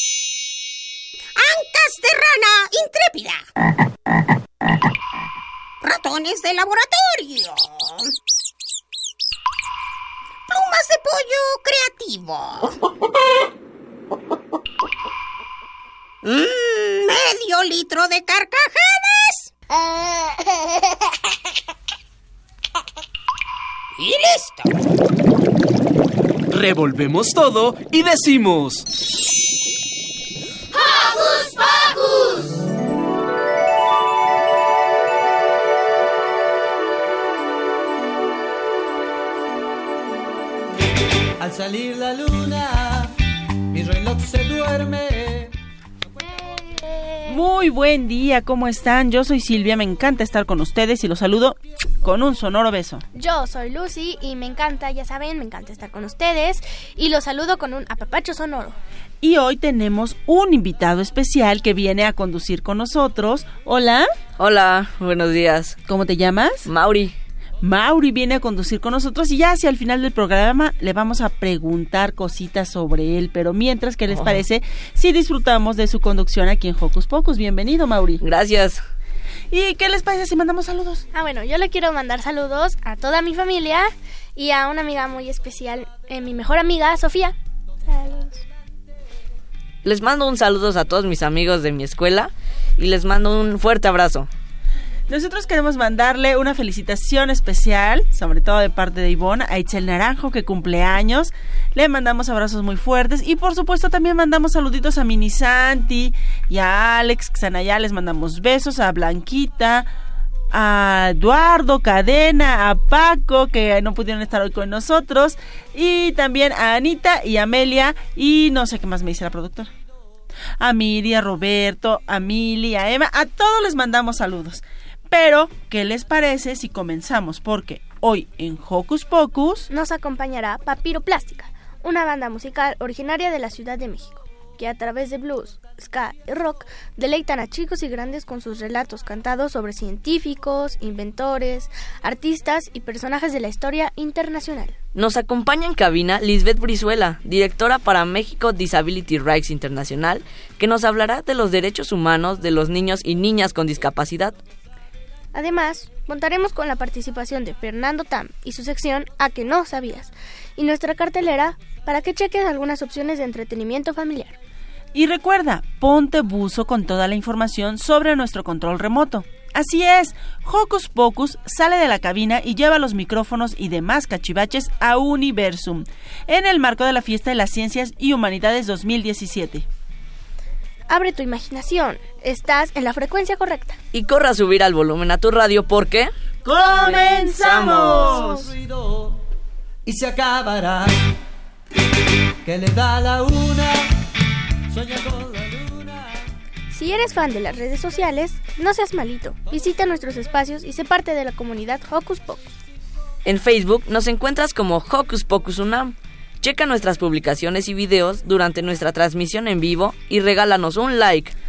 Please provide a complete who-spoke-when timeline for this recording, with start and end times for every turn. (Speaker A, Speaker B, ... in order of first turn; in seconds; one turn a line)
Speaker A: 1.4-3.4
Speaker A: 5.8-7.8
Speaker A: 10.5-12.5
Speaker A: 16.2-19.0
Speaker A: 24.0-24.6
Speaker B: 26.5-28.8
Speaker C: 41.4-43.1
Speaker C: 43.7-45.5
Speaker D: 46.4-47.4
Speaker E: 47.3-53.0
Speaker D: 53.1-58.8
Speaker E: 59.2-64.1
Speaker F: 64.4-65.8
Speaker E: 65.9-66.7
Speaker F: 66.6-67.1
Speaker E: 67.6-78.2
Speaker F: 74.1-74.3
Speaker F: 78.2-78.8
Speaker E: 79.5-81.0
Speaker D: 81.1-87.3
Speaker D: 87.8-88.4
Speaker F: 89.8-94.3
Speaker E: 95.1-109.9
Speaker E: 110.5-119.7
Speaker E: 120.6-129.7
Speaker D: 129.7-144.8
Speaker F: 144.9-154.4
Speaker D: 155.3-164.3
Speaker E: 164.9-179.6
Speaker D: 180.9-183.8
Speaker F: 183.9-186.1
Speaker E: 186.4-188.5
Speaker F: 186.8-188.2
Speaker C: 188.4-189.1
Speaker C: 189.8-191.1
Speaker C: 192.4-193.8
Speaker C: 194.7-196.2
Speaker D: 196.7-202.5
Speaker F: 203.2-211.3